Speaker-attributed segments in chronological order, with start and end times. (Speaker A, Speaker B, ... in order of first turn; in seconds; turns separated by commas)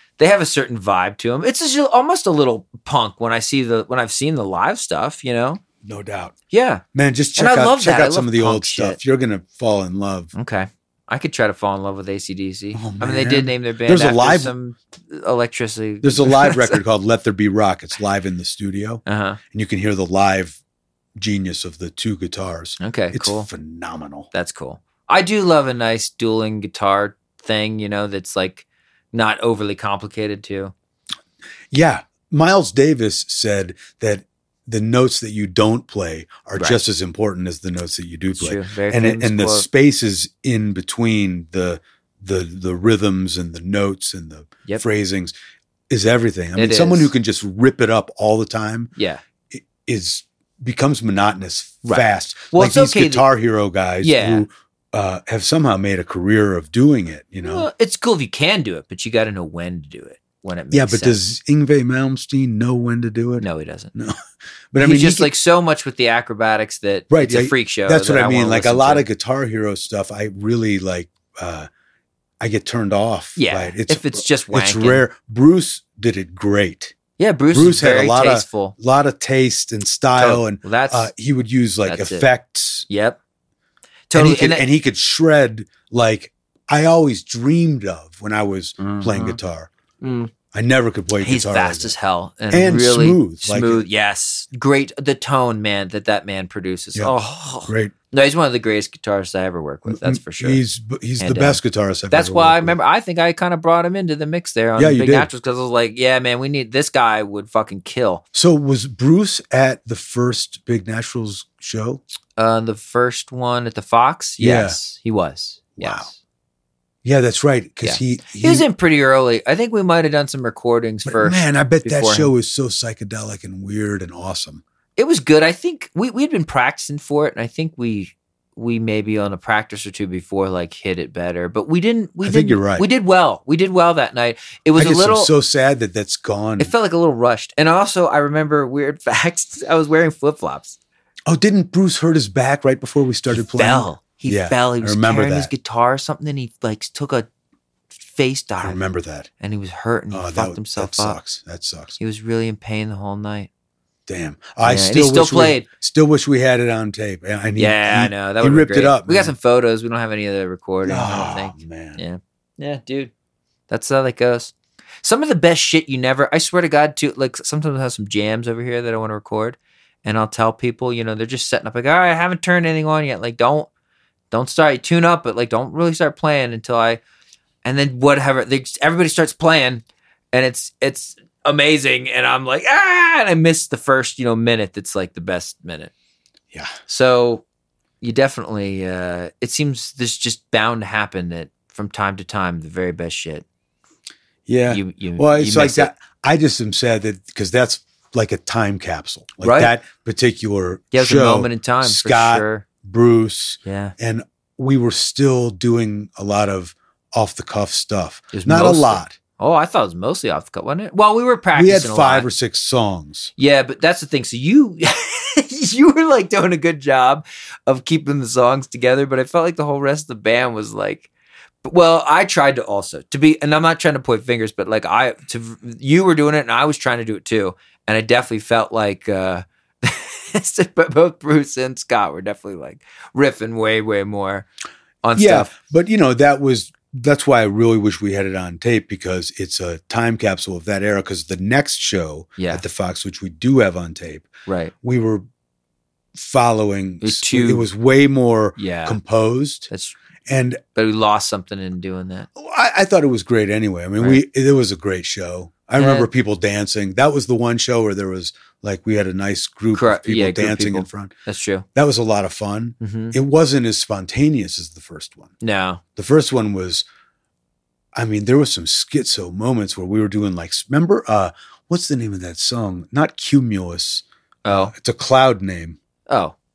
Speaker A: 0.2-5.6, Speaker B: 5.8-6.4, Speaker A: 6.5-6.8, Speaker B: 6.9-10.3, Speaker A: 7.4-9.0, Speaker A: 10.3-16.8, Speaker B: 12.8-14.5, Speaker B: 16.0-20.6, Speaker A: 19.1-19.4, Speaker B: 21.2-24.3, Speaker A: 22.8-23.5, Speaker A: 24.3-30.7, Speaker B: 31.7-45.3, Speaker A: 38.3-39.7, Speaker B: 45.9-48.9, Speaker A: 46.5-47.1, Speaker A: 49.0-49.2, Speaker B: 49.5-57.7, Speaker A: 51.9-53.3, Speaker A: 54.0-54.5, Speaker A: 57.4-61.2, Speaker B: 60.7-64.2, Speaker A: 63.4-63.9, Speaker B: 64.7-65.3, Speaker A: 64.8-69.1, Speaker B: 67.1-71.7, Speaker B: 72.4-77.0, Speaker A: 73.4-75.0, Speaker A: 77.2-78.8, Speaker B: 77.5-82.9, Speaker A: 80.2-81.1, Speaker A: 81.8-82.3, Speaker A: 82.9-83.2, Speaker A: 84.1-84.7, Speaker B: 84.1-89.7, Speaker A: 88.8-89.4, Speaker A: 90.0-90.3, Speaker B: 90.5-91.9, Speaker A: 91.2-100.6, Speaker B: 92.5-93.8, Speaker B: 97.7-97.9, Speaker B: 99.9-102.8, Speaker A: 101.2-108.2, Speaker B: 104.8-105.3, Speaker B: 108.3-112.0, Speaker A: 112.4-116.2, Speaker B: 114.4-114.8, Speaker B: 115.8-116.1, Speaker B: 117.0-118.7, Speaker A: 117.8-122.3, Speaker B: 121.0-124.6, Speaker A: 125.0-135.3, Speaker B: 132.2-132.9, Speaker B: 134.8-136.7, Speaker A: 136.6-140.8, Speaker B: 141.3-145.5, Speaker A: 143.3-147.3, Speaker A: 148.0-148.8, Speaker B: 148.6-149.3, Speaker A: 149.4-151.2, Speaker B: 150.1-152.0, Speaker A: 152.0-153.5, Speaker B: 154.1-159.3, Speaker A: 154.6-155.7, Speaker A: 157.6-163.1, Speaker B: 160.8-162.0, Speaker A: 163.7-173.7, Speaker A: 174.3-177.0, Speaker A: 177.6-185.9, Speaker A: 186.9-187.4, Speaker A: 188.0-193.4, Speaker B: 194.5-209.2, Speaker A: 194.7-195.9, Speaker A: 199.4-199.7, Speaker A: 200.9-202.7, Speaker A: 203.6-203.9, Speaker A: 208.3-212.3, Speaker B: 211.6-213.3, Speaker A: 213.4-221.1, Speaker A: 221.6-234.5, Speaker A: 235.0-235.5, Speaker B: 235.2-244.3, Speaker A: 242.4-242.6, Speaker A: 244.5-244.7, Speaker B: 244.8-245.2, Speaker B: 246.2-249.7, Speaker A: 247.0-247.7, Speaker A: 248.6-249.0, Speaker A: 249.7-249.9, Speaker B: 250.3-250.6, Speaker A: 250.8-252.3, Speaker B: 252.4-261.1, Speaker A: 255.8-256.1, Speaker A: 259.7-261.6, Speaker B: 261.8-265.3, Speaker A: 262.8-263.2, Speaker A: 265.4-265.8, Speaker B: 266.0-266.9, Speaker B: 267.9-275.8, Speaker A: 274.4-274.7, Speaker A: 276.1-276.4